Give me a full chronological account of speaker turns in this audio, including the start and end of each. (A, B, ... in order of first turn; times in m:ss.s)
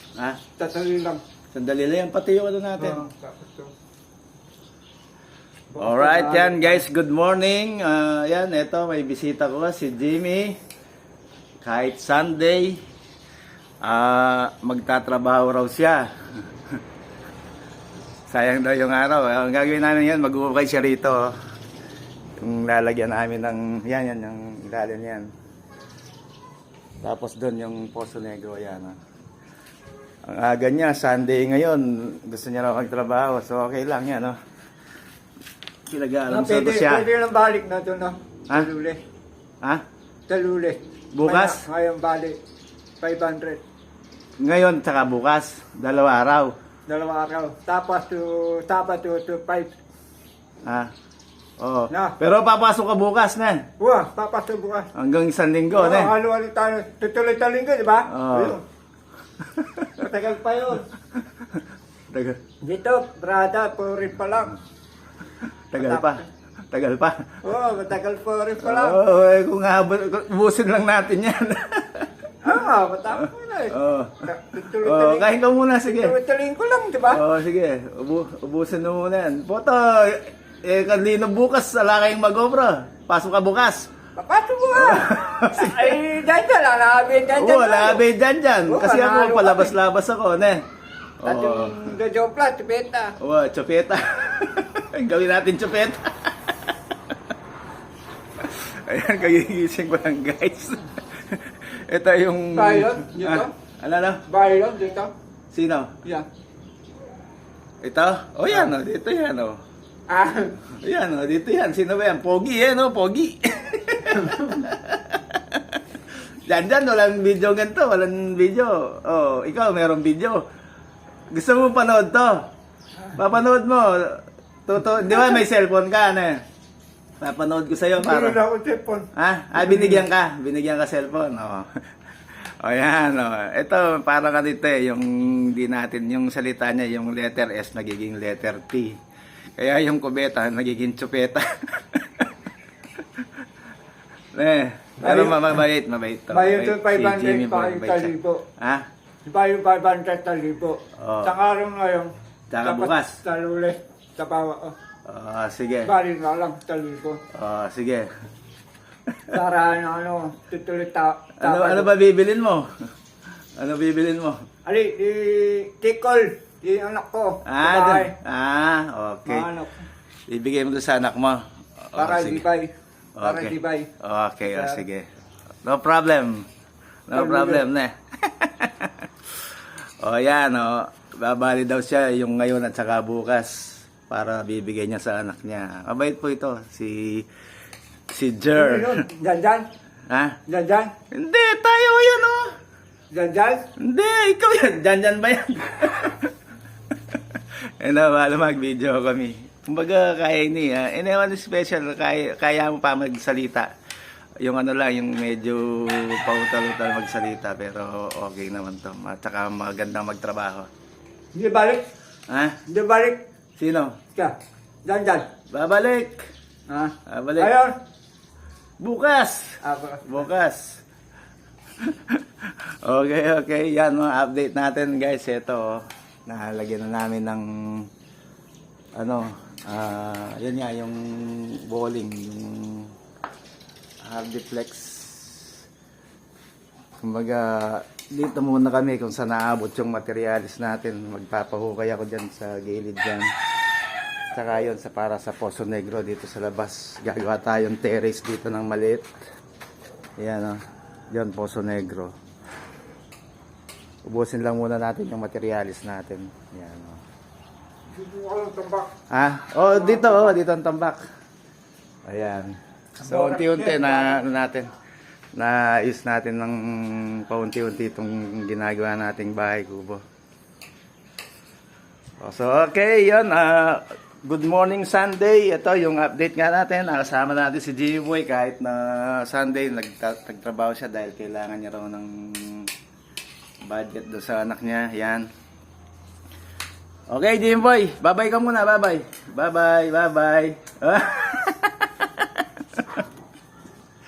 0:00.2-0:00.4 A
0:00.6-0:01.2 B
0:01.5-0:03.0 A
0:02.8-0:03.7 B
0:05.7-0:06.8 B
0:05.8-0:10.6 A
0:11.6-0:12.8 A
0:13.8-0:16.1 A
0:18.3-0:21.3 A
0:22.4-0:25.3 A
0:27.0-0:29.0 A
0:30.3-0:34.4 A
0:35.9-0:37.1 A
0:36.3-0:39.0 B
0:40.3-0:42.4 B
0:41.1-0:41.6 A
0:43.0-0:43.6 B
0:44.4-0:46.5 A
0:46.9-0:49.7 B
0:50.6-0:50.9 A
0:51.6-0:53.6 A
0:51.9-0:52.2 B
0:53.8-0:54.9 B
0:55.0-0:56.1 A
0:55.8-0:58.6 B
0:58.1-0:58.6 A
0:59.4-1:00.0 A
1:00.0-1:00.8 B
1:02.1-1:02.4 A
1:02.6-1:04.6 B
1:05.7-1:07.4 A
1:05.8-1:06.2 B
1:07.4-1:09.0 B
1:08.6-1:12.1 A
1:12.4-1:15.3 B
1:13.2-1:14.2 A
1:14.8-1:16.2 A
1:15.9-1:17.2 B
1:17.1-1:23.9 A
1:24.2-1:28.0 B
1:24.7-1:26.0 A
1:27.3-1:30.6 A
1:28.7-1:29.7 B
1:31.2-1:31.8 A
1:31.2-1:33.2 B
1:33.2-1:36.6 A
1:38.4-1:44.2 A
1:42.5-1:43.5 B
1:44.3-1:45.1 B
1:45.5-1:45.9 A
1:47.8-1:49.6 A
1:50.1-1:50.6 B
1:50.7-2:00.4 A
2:01.3-2:02.4 A
2:03.2-2:06.4 A
2:07.2-2:08.4 A
2:08.0-2:10.0 B
2:09.2-2:11.7 A
2:12.6-2:19.0 A
2:19.6-2:22.3 A
2:24.3-2:28.8 A
2:25.0-2:25.6 B
2:26.3-2:28.4 B
2:29.3-2:34.8 B
2:31.0-2:31.3 A
2:32.5-2:33.2 A
2:35.1-2:35.9 A
2:35.8-2:37.2 B
2:37.3-2:38.1 A
2:39.3-2:41.9 B
2:41.4-2:42.7 A
2:43.6-2:44.4 A
2:44.7-2:48.1 B
2:47.5-2:49.5 A
2:49.3-2:49.8 B
2:50.3-2:52.4 A
2:52.0-2:53.9 B
2:53.2-2:55.0 A
2:54.5-2:54.8 B
2:55.6-2:56.5 A
2:57.1-3:07.3 A
2:57.1-2:57.6 B
3:08.1-3:09.0 A
3:08.6-3:09.7 B
3:10.1-3:10.4 A
3:10.5-3:11.0 B
3:11.1-3:12.6 A
3:13.1-3:13.7 B
3:13.8-3:16.3 A
3:17.1-3:23.7 A
3:24.4-3:30.7 A
3:31.3-3:31.9 B
3:32.3-3:32.6 A
3:32.7-3:33.2 B
3:33.6-3:34.0 A
3:34.2-3:35.3 B
3:35.5-3:36.2 A
3:36.7-3:37.7 B
3:37.1-3:37.5 A
3:38.8-3:40.8 A
3:39.6-3:40.2 B
3:41.8-3:47.9 A
3:49.0-3:52.9 A
3:54.0-3:55.6 A
3:57.0-4:03.3 A
4:04.3-4:09.1 A
4:10.2-4:10.6 A
4:11.1-4:12.1 A
4:14.1-4:17.0 A
4:17.9-4:18.9 B
4:19.1-4:21.0 A
4:19.8-4:20.4 B
4:22.0-4:24.7 A
4:23.0-4:24.2 B
4:25.4-4:30.0 A
4:32.2-4:42.7 A
4:43.7-4:45.3 A
4:47.1-4:53.0 A